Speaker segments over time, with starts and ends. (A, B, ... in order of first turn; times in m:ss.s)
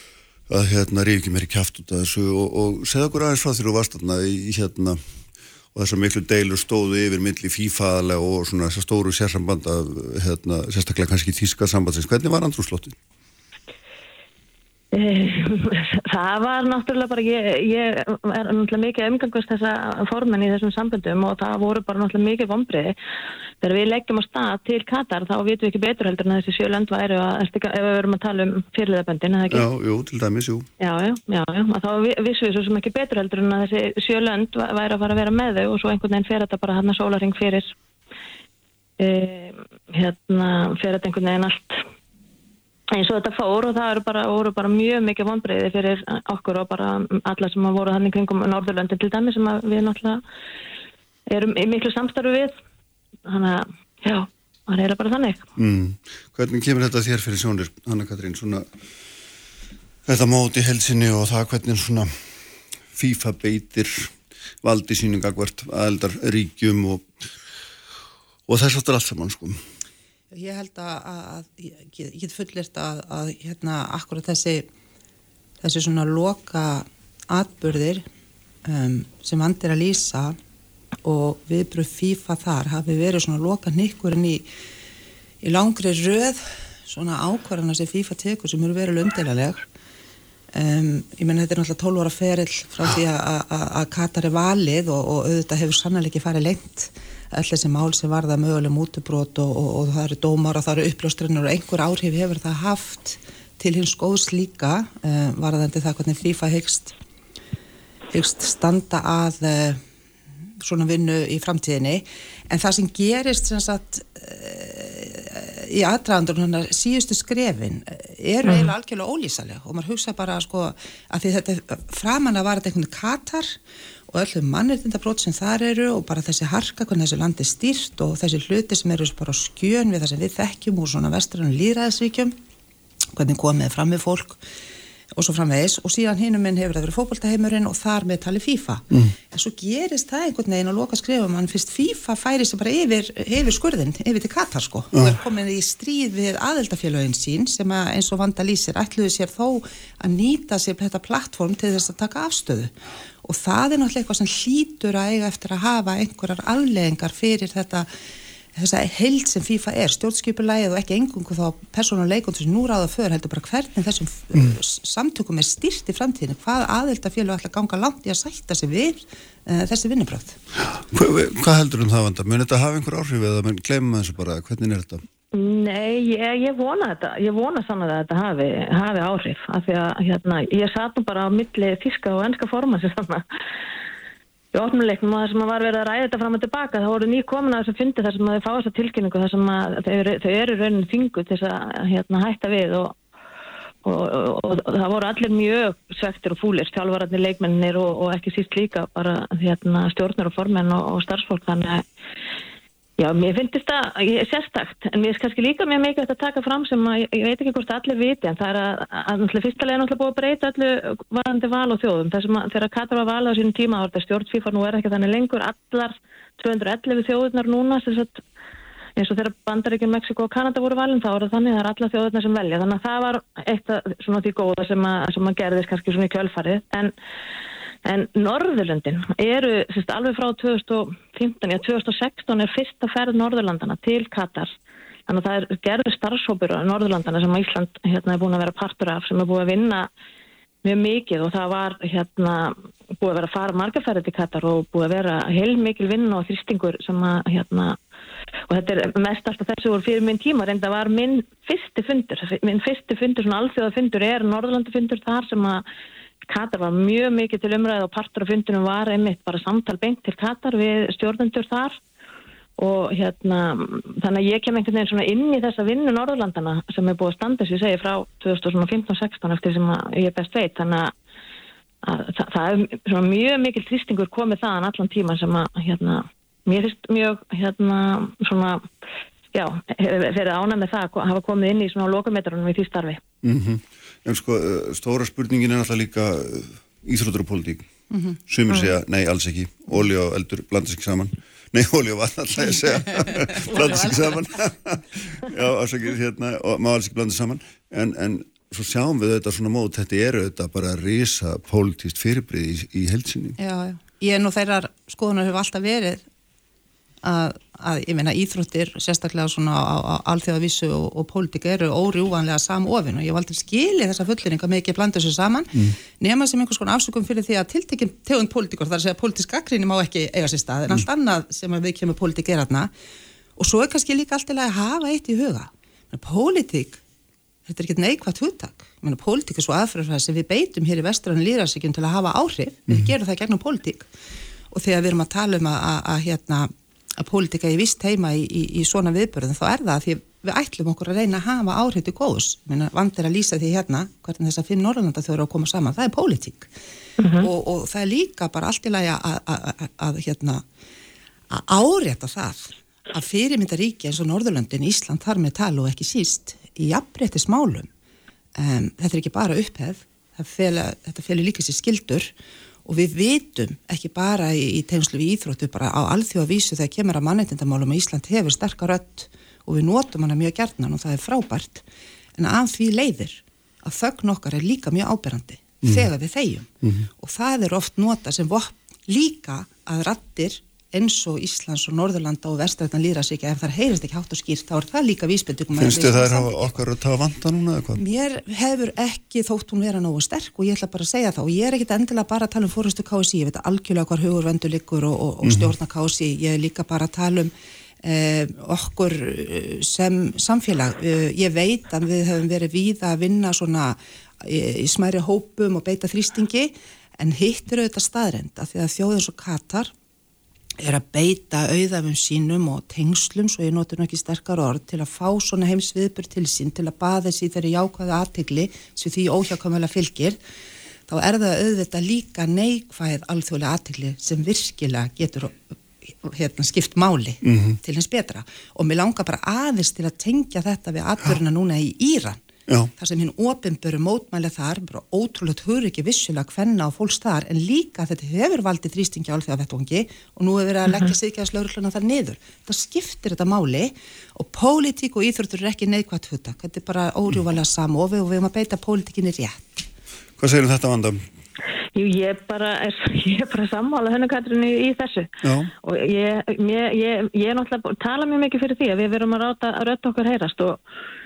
0:00.5-0:05.0 A
0:05.7-0:13.0 A
0:14.9-0:22.9 B
0:23.6-0:29.7 B
0:29.5-0:30.7 A
0:30.8-0:37.7 B
0:39.0-0:41.8 B
0:42.9-0:50.2 B
0:51.3-0:52.5 B
0:53.3-0:55.4 B
0:55.6-0:58.7 A
1:00.0-1:02.1 A
1:02.9-1:07.1 A
1:08.5-1:09.6 A
1:10.3-1:14.7 C
1:15.6-1:18.0 C
1:18.6-1:20.4 C
1:21.0-1:24.5 C
1:25.4-1:29.6 C
1:30.5-1:47.0 C
1:48.1-1:49.8 C
1:50.6-2:03.6 C
1:58.4-1:58.7 B
2:04.1-2:12.4 C
2:13.1-2:14.4 C
2:15.2-2:37.9 C
2:38.5-2:50.4 C
2:50.8-2:55.0 A
2:55.3-3:03.2 B
3:04.5-3:13.0 B
3:13.8-3:21.8 B
3:23.0-3:38.2 B
3:39.0-3:46.9 B
3:47.8-3:54.5 B
3:55.1-3:59.9 B
4:00.6-4:07.8 B
4:08.5-4:15.6 B
4:16.3-4:21.8 B
4:22.6-4:30.9 B
4:31.8-4:38.7 B
4:39.3-4:43.0 B
4:43.2-4:47.7 A
4:47.9-4:48.2 C
4:48.2-5:03.4 A
4:52.7-4:54.1 C
4:53.5-4:53.9 B
5:03.4-5:06.0 C
5:07.0-5:22.7 C
5:23.4-5:26.8 C
5:27.5-5:33.9 C
5:34.5-5:46.5 C
5:47.0-5:47.3 B
5:47.2-5:50.4 C
5:51.3-5:57.7 C
5:58.4-6:02.1 C
6:02.6-6:11.6 C
6:12.2-6:26.6 C
6:15.6-6:15.9 A
6:25.6-6:27.8 A
6:27.7-6:49.7 C
6:35.2-6:35.5 A
6:50.6-7:00.2 C
7:00.9-7:05.4 C
7:06.0-7:12.2 C
7:07.2-7:07.6 A
7:12.8-7:29.6 C
7:30.2-7:31.0 A
7:31.7-7:35.1 B
7:35.2-7:35.5 A
7:35.6-7:40.6 B